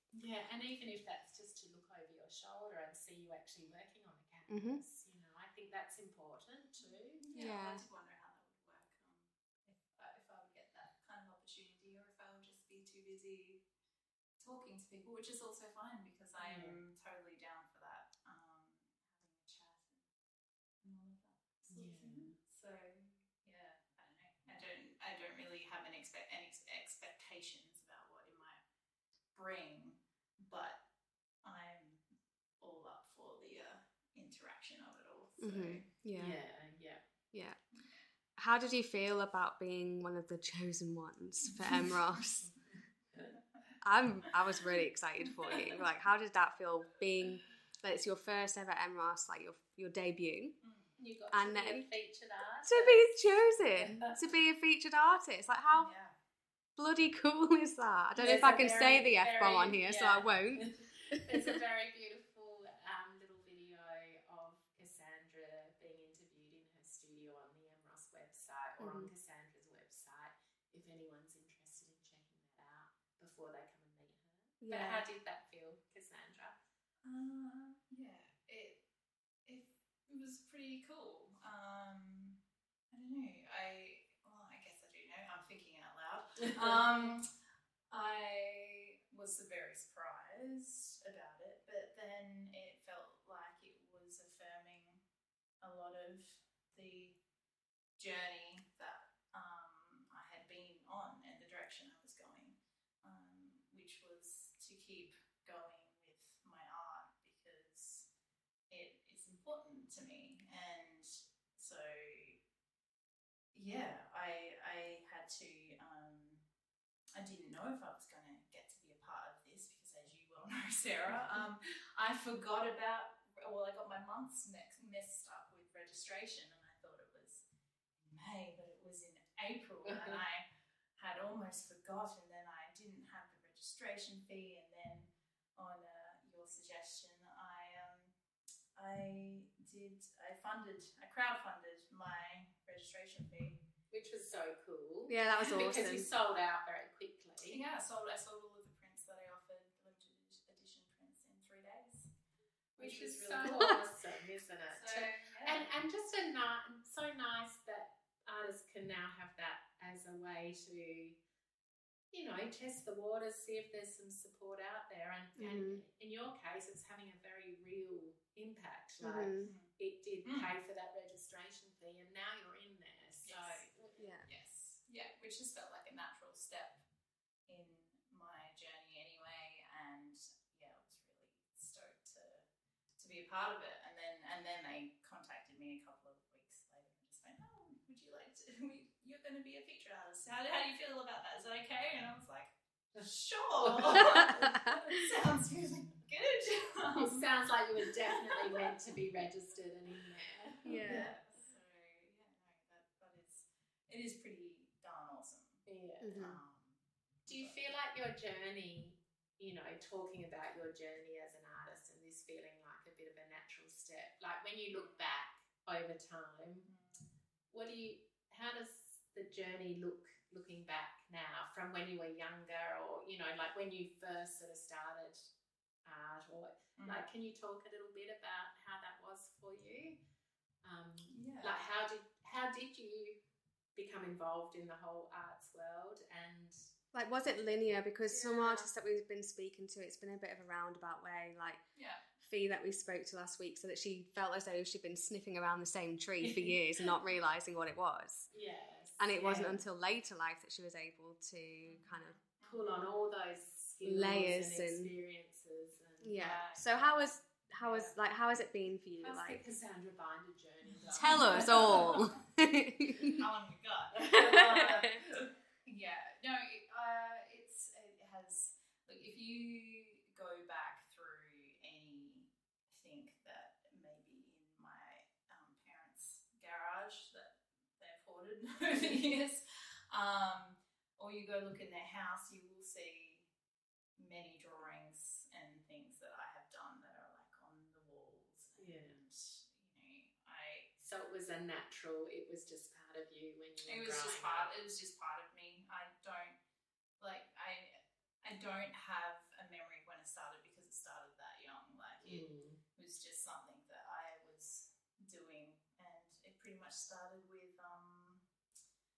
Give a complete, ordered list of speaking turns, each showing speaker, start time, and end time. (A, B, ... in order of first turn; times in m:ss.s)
0:00.1-0:07.2 A
0:04.5-0:04.8 B
0:07.2-0:13.6 C
0:07.4-0:07.8 B
0:14.4-0:20.0 C
0:16.4-0:16.8 A
0:20.8-0:28.6 C
0:21.7-0:22.3 A
0:29.3-0:30.8 C
0:31.4-0:32.0 C
0:32.6-0:35.9 C
0:35.4-0:36.4 B
0:36.2-0:37.0 A
0:37.3-0:37.6 B
0:38.4-0:42.5 B
0:41.5-0:42.2 C
0:42.7-0:43.4 A
0:43.8-0:50.6 B
0:45.4-0:45.8 C
0:50.6-0:51.0 C
0:51.0-0:53.1 A
0:51.3-0:51.9 B
0:52.7-0:55.9 B
0:53.7-0:54.2 A
0:55.7-0:56.1 C
0:56.8-1:01.4 B
0:58.2-1:16.6 A
1:08.8-1:09.1 B
1:14.6-1:15.1 B
1:17.0-1:18.8 C
1:19.5-1:22.4 C
1:22.9-1:27.3 C
1:26.5-1:26.7 A
1:27.9-1:35.0 C
1:35.6-1:37.2 C
1:38.0-1:48.1 C
1:48.7-1:52.4 C
1:53.5-1:56.4 C
1:57.2-2:07.4 C
2:08.0-2:10.5 C
2:11.0-2:18.1 C
2:18.8-2:23.6 C
2:23.9-2:27.6 A
2:25.1-2:26.1 B
2:27.5-2:32.1 C
2:32.8-2:33.8 C
2:32.8-2:41.2 A
2:33.4-2:33.7 B
2:34.7-2:35.7 C
2:42.1-2:54.0 A
2:45.4-2:45.8 B
2:49.0-2:49.5 B
2:49.5-2:49.7 C
2:50.2-2:50.5 C
2:53.2-2:53.7 C
2:54.0-2:54.3 B
2:54.2-2:56.8 C
2:57.5-3:02.5 C
3:03.0-3:17.3 C
3:13.6-3:14.5 A
3:14.2-3:15.0 B
3:17.0-3:21.2 A
3:18.3-3:18.7 C
3:20.6-3:21.1 B
3:20.7-3:25.6 C
3:25.7-3:26.3 A
3:26.0-3:26.4 B
3:26.1-3:27.7 C
3:27.3-3:36.7 A
3:34.7-3:35.0 C
3:36.6-3:37.1 C
3:37.5-3:45.3 A
3:45.8-3:50.0 A
3:46.8-3:47.1 C
3:50.6-3:53.2 A
3:51.1-3:51.6 C
3:53.8-3:56.7 A
3:56.9-4:01.6 B
3:58.1-3:58.7 A
4:01.8-4:02.0 C
4:02.2-4:08.3 B
4:06.2-4:06.9 A
4:08.3-4:09.6 A
4:09.0-4:12.2 B
4:11.6-4:13.0 C
4:12.4-4:17.9 A
4:13.8-4:14.9 B
4:16.0-4:19.4 B
4:19.0-4:22.1 A
4:20.9-4:23.2 B
4:21.3-4:22.0 C
4:23.0-4:43.3 C
4:24.1-4:25.2 A
4:24.1-4:25.0 B
4:44.0-4:50.7 C
4:48.6-4:49.0 A
4:50.8-4:54.5 A
4:53.6-4:56.4 C
4:57.0-5:08.2 C
5:02.0-5:02.6 A